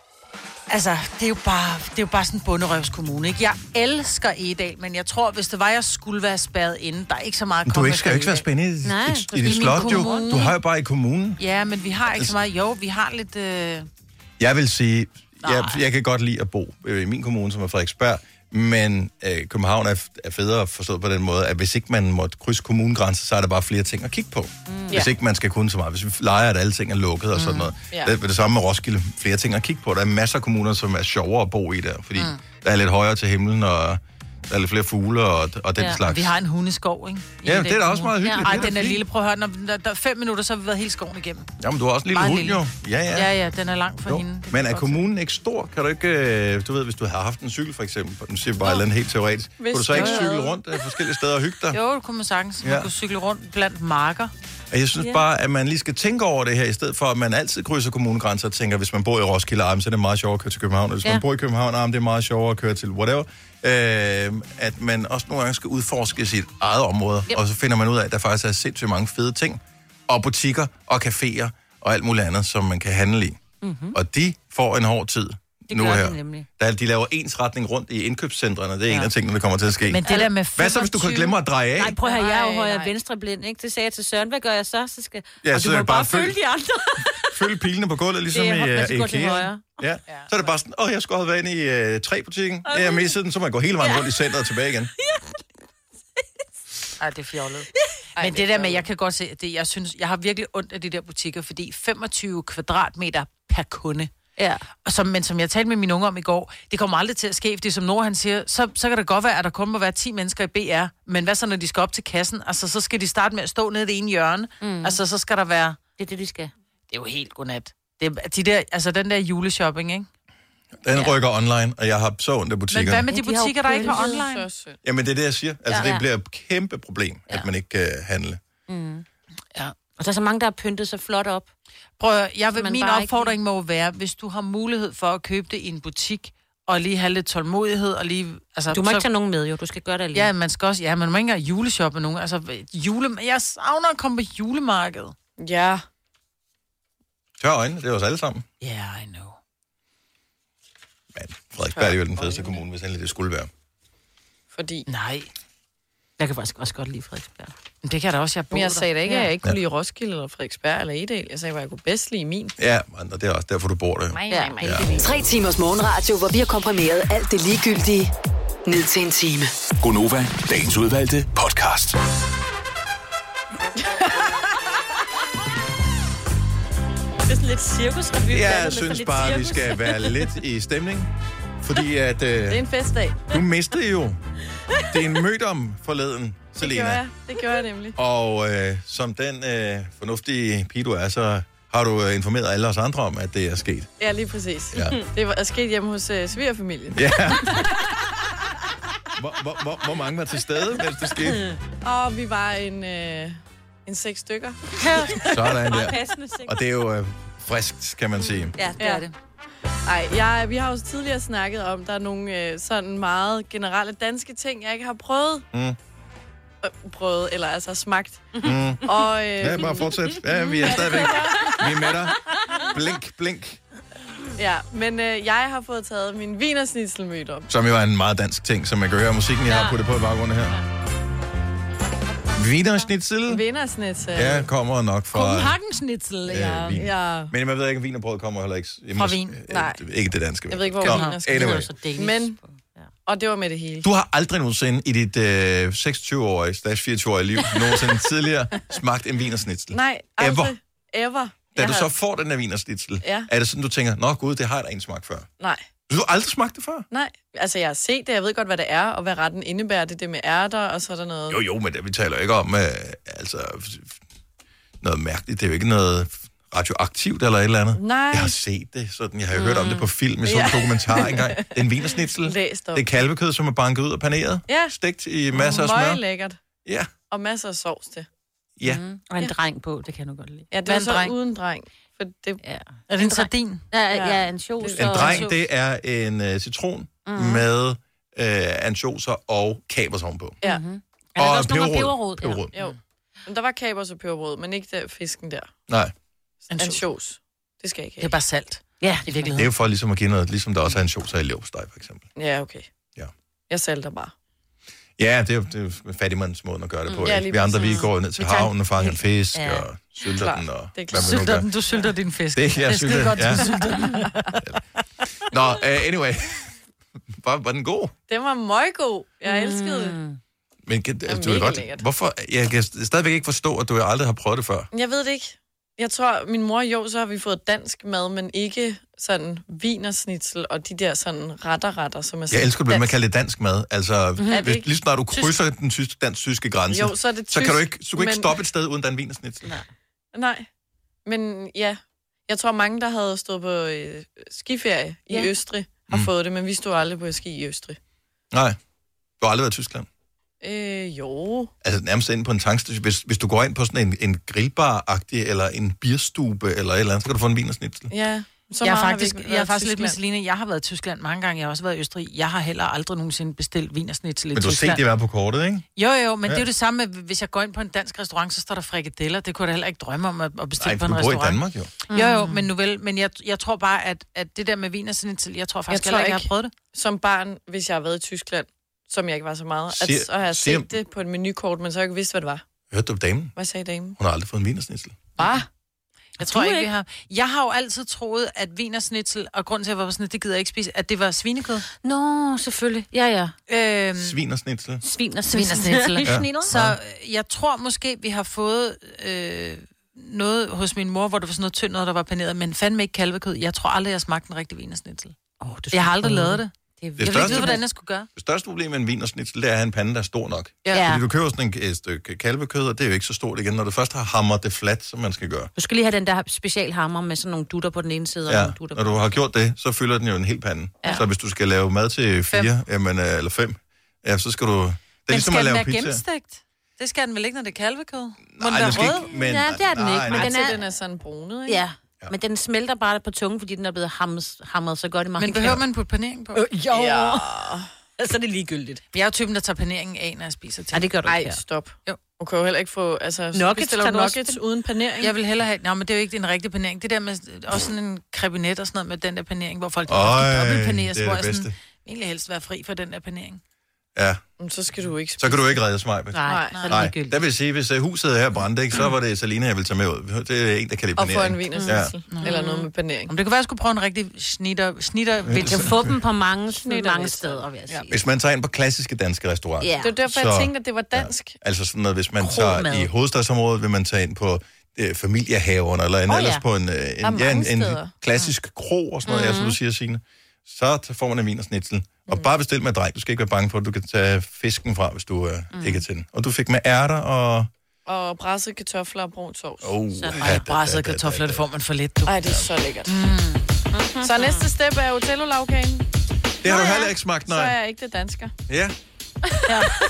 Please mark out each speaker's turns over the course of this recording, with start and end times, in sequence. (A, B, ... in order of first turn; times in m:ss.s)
0:00.7-0:08.5 A
0:07.7-0:11.4 B
0:08.8-0:10.5 C
0:09.4-0:10.5 A
0:11.4-0:13.9 A
0:12.1-0:12.4 B
0:14.4-0:36.4 B
0:15.4-0:15.8 A
0:24.7-0:25.0 C
0:27.4-0:27.6 A
0:27.9-0:28.2 D
0:36.0-0:41.5 A
0:37.4-0:39.0 B
0:38.2-0:38.7 C
0:41.6-0:43.3 B
0:42.1-0:42.6 A
0:43.1-0:45.0 A
0:44.0-0:51.8 B
0:49.6-0:50.6 D
0:49.9-0:50.3 A
0:51.7-0:54.3 A
0:52.6-0:52.9 B
0:54.7-1:13.4 B
1:13.6-1:14.0 C
1:13.9-1:22.0 B
1:15.7-1:16.5 C
1:19.9-1:21.4 A
1:21.8-1:27.3 C
1:22.0-1:22.9 D
1:25.4-1:26.4 B
1:27.3-1:34.9 B
1:28.3-1:29.7 C
1:32.7-1:33.1 C
1:33.8-1:34.1 C
1:35.0-1:35.3 C
1:37.0-1:44.1 A
1:38.2-1:38.9 D
1:44.4-1:44.7 C
1:44.8-1:55.8 A
1:54.6-1:55.0 C
1:56.0-1:56.5 C
1:56.9-2:00.1 A
2:00.8-2:03.0 B
2:02.7-2:04.5 A
2:03.1-2:04.2 C
2:03.7-2:04.8 D
2:04.8-2:08.4 B
2:05.7-2:06.0 C
2:08.7-2:09.0 C
2:10.0-2:11.5 C
2:12.0-2:19.1 A
2:12.6-2:13.3 C
2:18.7-2:20.3 C
2:20.1-2:25.2 A
2:25.4-2:25.8 D
2:27.4-2:28.4 B
2:28.6-2:29.4 A
2:31.1-2:33.5 B
2:31.7-2:32.6 D
2:34.5-2:34.9 D
2:34.9-2:35.3 A
2:36.2-2:37.5 C
2:37.8-2:39.1 A
2:38.5-2:42.5 D
2:42.6-2:44.9 B
2:44.1-2:45.2 D
2:44.3-2:45.0 C
2:45.0-2:48.1 E
2:48.7-2:49.5 E
2:49.8-2:52.0 F
2:53.8-2:54.3 D
2:57.3-3:00.2 C
2:58.3-3:01.1 B
3:01.6-3:02.6 B
3:02.5-3:03.3 D
3:03.3-3:04.2 B
3:04.9-3:07.0 B
3:06.6-3:08.0 D
3:08.0-3:13.9 B
3:14.0-3:17.0 D
3:14.7-3:15.0 B
3:16.9-3:17.7 B
3:19.2-3:21.5 B
3:21.8-3:24.6 D
3:24.8-3:26.6 C
3:25.2-3:28.6 B
3:28.6-3:29.1 C
3:28.8-3:29.1 D
3:29.9-3:35.4 D
3:36.6-3:38.3 D
3:38.4-3:38.9 B
3:38.8-3:40.0 D
3:39.4-3:43.6 B
3:40.6-3:41.6 D
3:40.6-3:41.6 C
3:44.4-3:47.5 D
3:47.5-3:50.6 B
3:49.5-3:49.8 C
3:52.4-3:53.4 B
3:53.3-3:54.5 D
3:54.1-3:55.6 B
3:55.1-3:56.8 A
3:56.3-4:01.7 B
3:56.4-3:57.3 D
3:59.0-3:59.4 A
3:59.5-3:59.8 D
4:00.5-4:02.4 D
4:00.8-4:02.9 C
4:03.1-4:03.9 D
4:03.8-4:10.6 B
4:09.7-4:11.9 D
4:11.6-4:15.3 B
4:13.0-4:13.3 D
4:15.4-4:15.7 D
4:15.9-4:16.9 B
4:16.9-4:21.4 D
4:21.3-4:24.0 B
4:24.8-4:36.0 B
4:27.8-4:28.4 D
4:29.3-4:29.9 C
4:30.2-4:32.9 D
4:34.5-4:34.8 D
4:35.3-4:36.4 D
4:36.6-4:36.9 B
4:37.1-4:38.1 D
4:38.6-4:38.8 B
4:38.6-4:40.5 C
4:40.5-4:42.4 D
4:40.6-4:41.2 A
4:42.4-4:45.3 C
4:42.9-4:43.6 A
4:43.9-4:45.3 D
4:44.8-4:50.4 B
4:47.1-4:47.5 C
4:50.4-4:52.5 C
4:51.2-4:52.5 B
4:52.5-4:55.5 D
4:55.7-4:55.9 B
4:56.5-4:56.8 A
4:56.5-4:58.2 D
4:58.0-4:59.4 A
4:58.8-4:59.3 C
4:59.4-5:02.1 B
5:02.2-5:02.7 D
5:03.5-5:04.1 D
5:05.0-5:11.5 B
5:06.9-5:09.7 C
5:07.0-5:07.8 D
5:10.1-5:11.2 D
5:10.9-5:14.4 A
5:12.4-5:13.6 B
5:15.3-5:16.5 B
5:17.2-5:17.9 B
5:18.1-5:20.0 D
5:19.2-5:20.2 C
5:20.7-5:24.7 B
5:21.1-5:21.8 D
5:24.7-5:33.0 D
5:32.3-5:39.5 B
5:34.2-5:34.5 C
5:34.3-5:34.7 D
5:36.7-5:38.4 D
5:40.1-5:40.5 D
5:41.1-5:47.8 D
5:48.3-5:48.6 B
5:49.2-5:49.9 B
5:50.4-5:51.5 D
5:51.6-5:57.9 B
5:57.9-6:00.0 D
5:58.6-6:04.8 A
6:04.3-6:05.6 B
6:05.8-6:16.5 A
6:10.6-6:11.7 B
6:11.9-6:12.4 C
6:15.7-6:22.4 D
6:19.7-6:20.7 B
6:22.7-6:23.4 B
6:23.4-6:24.0 D
6:24.0-6:25.0 B
6:25.2-6:25.4 D
6:26.2-6:31.6 A
6:26.2-6:26.7 C
6:31.8-6:33.4 C
6:33.5-6:34.2 A
6:34.0-6:34.8 B
6:34.8-6:36.5 C
6:35.3-6:45.2 A
6:36.0-6:36.8 B
6:45.4-6:47.6 C
6:45.7-6:48.1 A
6:47.0-6:47.6 B
6:48.2-6:55.5 B
6:50.7-6:51.0 C
6:55.6-6:59.0 C
6:58.3-7:06.0 B
7:05.1-7:09.1 A
7:08.4-7:10.4 B
7:09.1-7:10.6 C
7:10.0-7:11.6 D
7:11.5-7:15.6 C
7:15.2-7:16.5 A
7:16.6-7:17.7 D
7:16.7-7:17.2 C
7:18.0-7:18.8 C
7:18.9-7:20.9 A
7:20.7-7:21.4 C
7:21.0-7:25.1 D
7:23.3-7:24.4 C
7:25.0-7:33.4 A
7:29.9-7:31.5 B
7:34.0-7:34.2 B
7:34.4-7:35.6 D
7:35.2-7:41.9 B
7:36.1-7:37.2 C
7:36.2-7:36.6 D
7:41.0-7:43.1 D
7:41.6-7:42.7 C
7:42.1-7:42.4 A
7:43.1-7:45.8 A
7:45.3-7:45.9 B
7:45.4-7:47.9 C
7:46.5-7:47.9 D
7:47.9-8:07.5 B
7:49.6-7:50.0 C
7:49.8-7:51.4 D
7:52.2-7:52.9 C
7:56.1-7:56.4 C
7:57.0-7:57.9 D
7:59.1-7:59.6 C
8:05.5-8:05.8 C
8:07.9-8:09.8 D
8:09.6-8:11.4 B
8:09.9-8:10.2 C
8:10.2-8:13.4 A
8:12.1-8:13.0 D
8:13.7-8:14.5 C
8:14.0-8:15.9 D
8:16.4-8:17.6 B
8:16.5-8:18.3 D
8:18.5-8:18.8 B